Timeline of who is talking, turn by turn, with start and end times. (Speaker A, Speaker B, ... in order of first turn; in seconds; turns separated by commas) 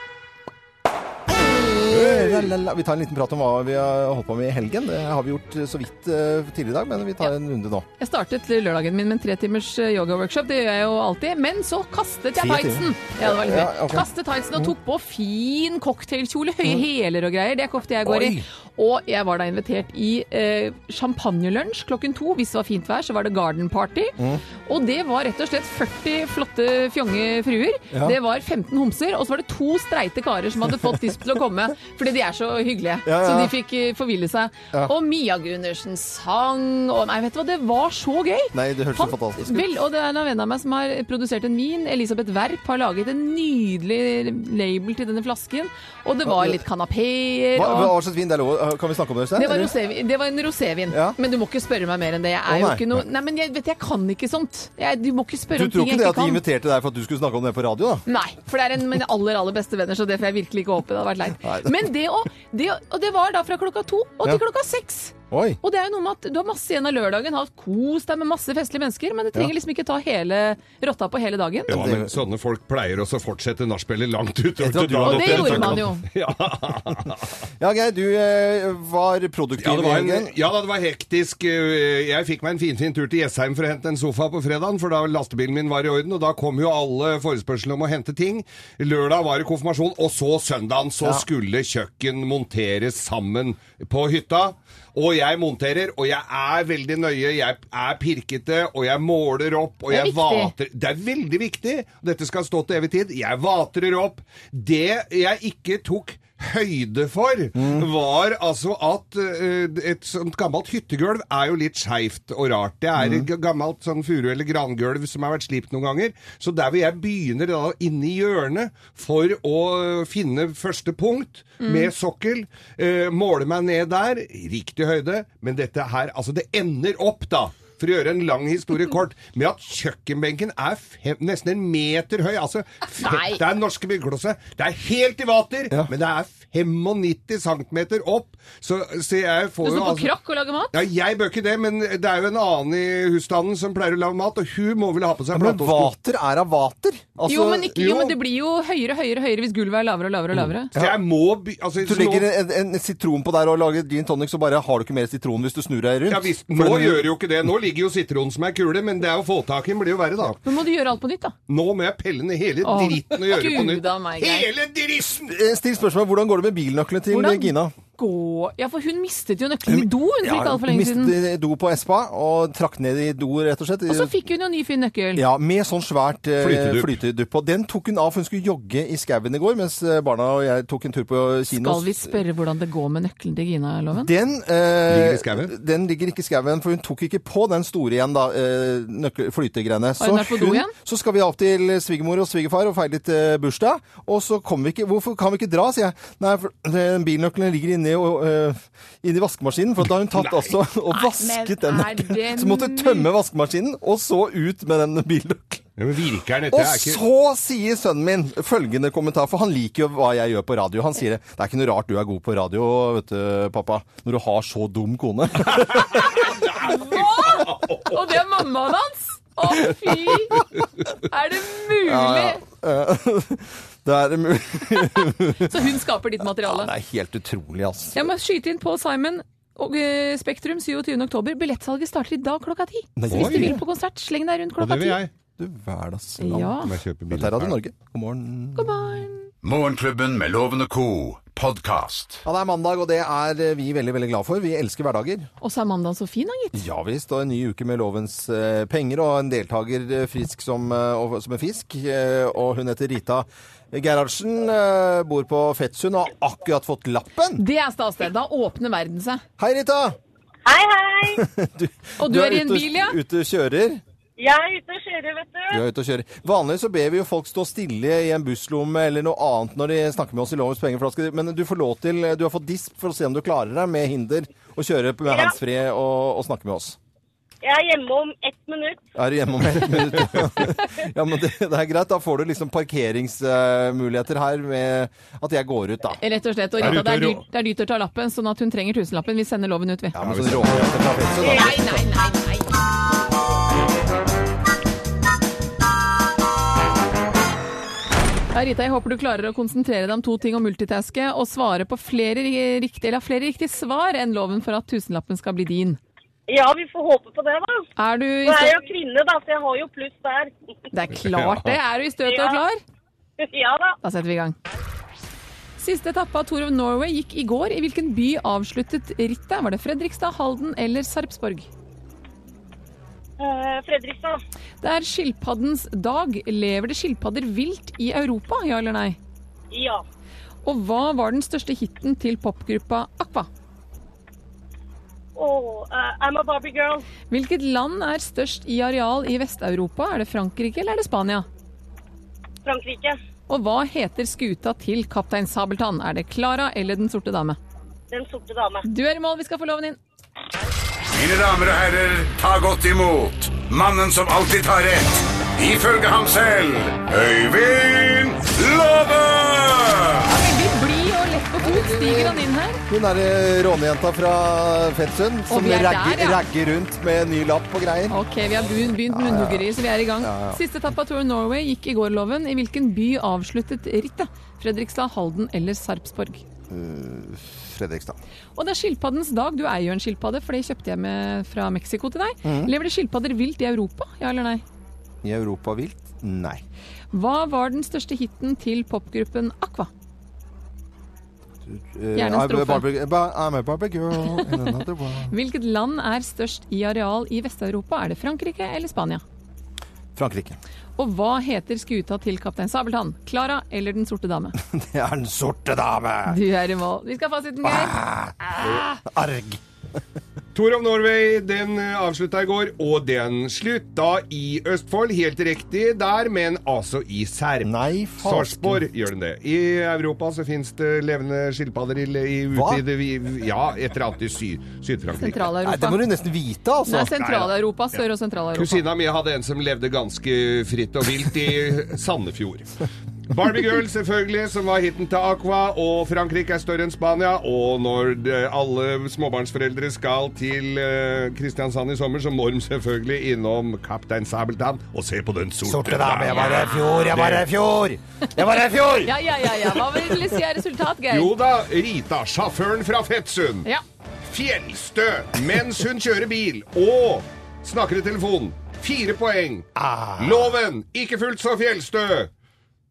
Speaker A: 1.3-7.8, Speaker B: 1.9-2.5, Speaker C: 8.0-47.9, Speaker A: 12.3-14.7, Speaker A: 18.0-18.4, Speaker A: 27.9-28.2, Speaker A: 33.0-33.5, Speaker A: 38.5-39.7, Speaker A: 46.2-46.6, Speaker A: 47.5-49.7, Speaker C: 49.4-56.4, Speaker A: 50.9-51.2, Speaker A: 52.5-53.0, Speaker A: 55.5-58.0, Speaker C: 58.0-71.8, Speaker A: 61.4-61.9, Speaker A: 65.3-65.6, Speaker B: 71.7-77.2, Speaker A: 71.7-72.2, Speaker A: 74.6-75.9, Speaker C: 75.0-76.0, Speaker A: 77.6-80.3, Speaker B: 79.6-140.1, Speaker C: 99.9-100.5, Speaker A: 107.5-107.9, Speaker A: 113.0-113.3, Speaker C: 121.6-121.9, Speaker C: 133.0-133.4, Speaker C: 139.6-140.7, Speaker B: 140.7-145.9, Speaker A: 145.3-148.1, Speaker C: 147.3-150.7, Speaker B: 150.7-152.3, Speaker A: 150.7-151.0, Speaker A: 151.8-157.1, Speaker B: 156.1-160.4, Speaker C: 160.4-161.3, Speaker B: 161.5-165.3, Speaker C: 162.6-164.5, Speaker A: 165.3-167.7, Speaker C: 167.1-171.1, Speaker A: 169.7-174.2, Speaker C: 173.9-175.2, Speaker A: 175.1-182.2, Speaker B: 176.4-177.0, Speaker C: 181.5-184.1, Speaker A: 183.9-205.7, Speaker B: 184.9-185.5, Speaker C: 190.0-190.7, Speaker B: 200.2-200.5, Speaker C: 200.9-203.1, Speaker B: 205.8-207.0, Speaker A: 206.5-216.3, Speaker B: 215.5-217.9, Speaker C: 216.6-220.4, Speaker C: 221.0-222.4, Speaker A: 221.8-225.7, Speaker C: 225.3-226.7, Speaker A: 226.4-228.1, Speaker C: 227.9-235.0, Speaker A: 233.0-233.6, Speaker B: 233.1-233.6, Speaker B: 234.6-235.1, Speaker A: 235.4-238.8, Speaker C: 236.2-236.7, Speaker B: 236.6-237.6, Speaker C: 238.5-239.3, Speaker D: 239.4-242.2, Speaker A: 242.2-245.3, Speaker C: 245.4-246.7, Speaker A: 246.5-257.4, Speaker C: 257.4-259.2, Speaker A: 259.4-259.9, Speaker E: 260.4-261.2, Speaker A: 261.1-263.8, Speaker C: 262.0-263.0, Speaker E: 264.2-265.6, Speaker A: 265.5-276.8, Speaker E: 275.1-275.3, Speaker E: 277.4-278.8, Speaker A: 278.9-286.0, Speaker C: 286.0-290.0, Speaker B: 286.6-287.2, Speaker A: 289.9-291.9, Speaker B: 290.0-290.7, Speaker C: 291.2-292.5, Speaker E: 291.2-291.5, Speaker C: 298.3-305.8, Speaker E: 306.3-307.6, Speaker C: 307.8-308.6, Speaker E: 308.2-310.3, Speaker C: 310.7-312.6, Speaker B: 311.0-311.5, Speaker E: 312.1-312.4, Speaker E: 313.2-313.7, Speaker C: 313.8-314.4, Speaker C: 315.6-321.5, Speaker E: 323.2-324.2, Speaker C: 324.6-329.0, Speaker E: 329.5-329.8, Speaker C: 330.4-333.3, Speaker E: 335.1-336.8, Speaker C: 337.1-341.2, Speaker E: 342.4-343.0, Speaker C: 343.3-347.4, Speaker E: 347.9-348.6, Speaker C: 348.6-349.8, Speaker D: 350.9-360.0, Speaker C: 360.0-362.6, Speaker A: 361.4-368.0, Speaker C: 365.3-366.2, Speaker C: 367.9-376.2, Speaker A: 368.9-370.4, Speaker A: 376.5-378.0, Speaker C: 378.4-384.4, Speaker A: 382.2-382.5, Speaker A: 385.0-386.4, Speaker C: 386.9-389.7, Speaker A: 391.4-395.1, Speaker C: 391.9-392.6, Speaker C: 394.1-394.5, Speaker C: 395.1-399.0, Speaker A: 399.9-400.4, Speaker C: 400.8-404.4, Speaker A: 404.4-406.2, Speaker C: 406.1-407.8, Speaker A: 407.4-409.4, Speaker B: 410.3-425.3, Speaker A: 417.4-418.6, Speaker A: 422.3-422.6, Speaker C: 424.9-425.8, Speaker A: 425.4-426.9, Speaker C: 426.6-428.6, Speaker B: 427.0-427.3, Speaker B: 428.4-432.5, Speaker B: 433.1-447.3, Speaker A: 445.4-448.9, Speaker C: 448.8-451.1, Speaker A: 449.5-450.0, Speaker B: 450.9-453.4, Speaker B: 454.0-462.1, Speaker A: 459.5-460.3